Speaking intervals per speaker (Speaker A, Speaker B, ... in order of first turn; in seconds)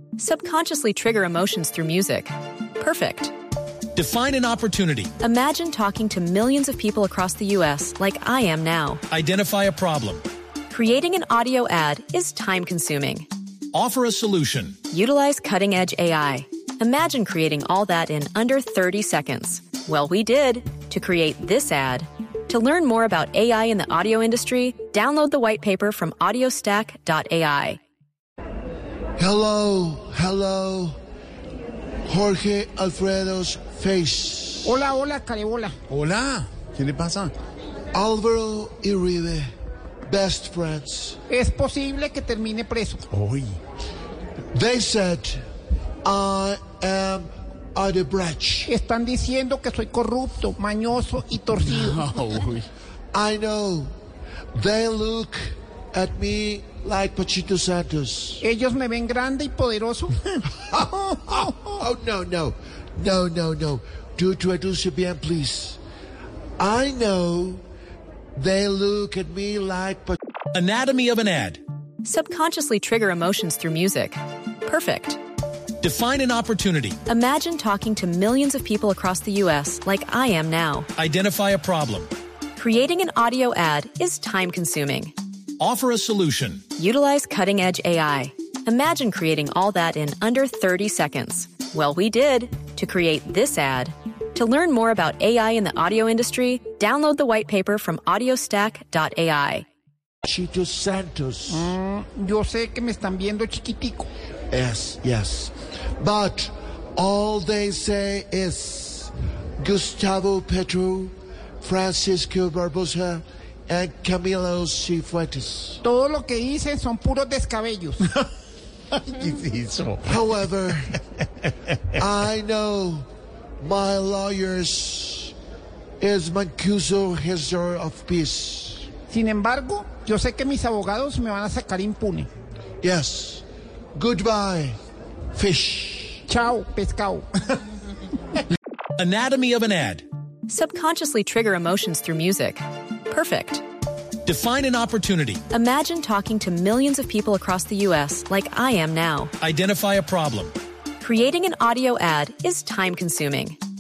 Speaker A: 0.2-3.3, 5.2-9.0, 10.7-13.3, 14.9-27.8, 72.0-75.2, 77.1-80.9, 82.6-85.1, 86.8-99.7, 140.5-143.6, 145.5-149.3, 151.0-153.6
Speaker B: 3.9-5.1, 9.1-10.2, 13.7-14.8, 70.5-71.6, 75.8-77.0, 81.0-82.1, 85.6-86.6, 139.0-140.0, 144.2-145.4, 149.4-150.5
Speaker C: 29.2-31.0, 32.0-34.8, 37.9-39.5, 40.0-41.2, 44.5-45.4, 46.0-48.7, 53.1-53.9, 54.5-58.4, 60.5-65.8, 66.6-67.6, 68.3-70.2, 100.2-101.7, 104.5-115.8, 120.0-121.0, 121.9-123.1, 123.6-125.3, 126.0-128.9, 132.8-133.4, 133.9-134.8, 135.3-136.2
Speaker D: 34.6-35.8, 41.3-43.1, 48.7-52.4, 58.4-60.3, 101.5-104.1, 115.8-118.2, 129.1-132.3, 136.3-137.3
Speaker E: 35.9-37.3, 43.1-43.6, 52.1-52.6, 119.2-120.0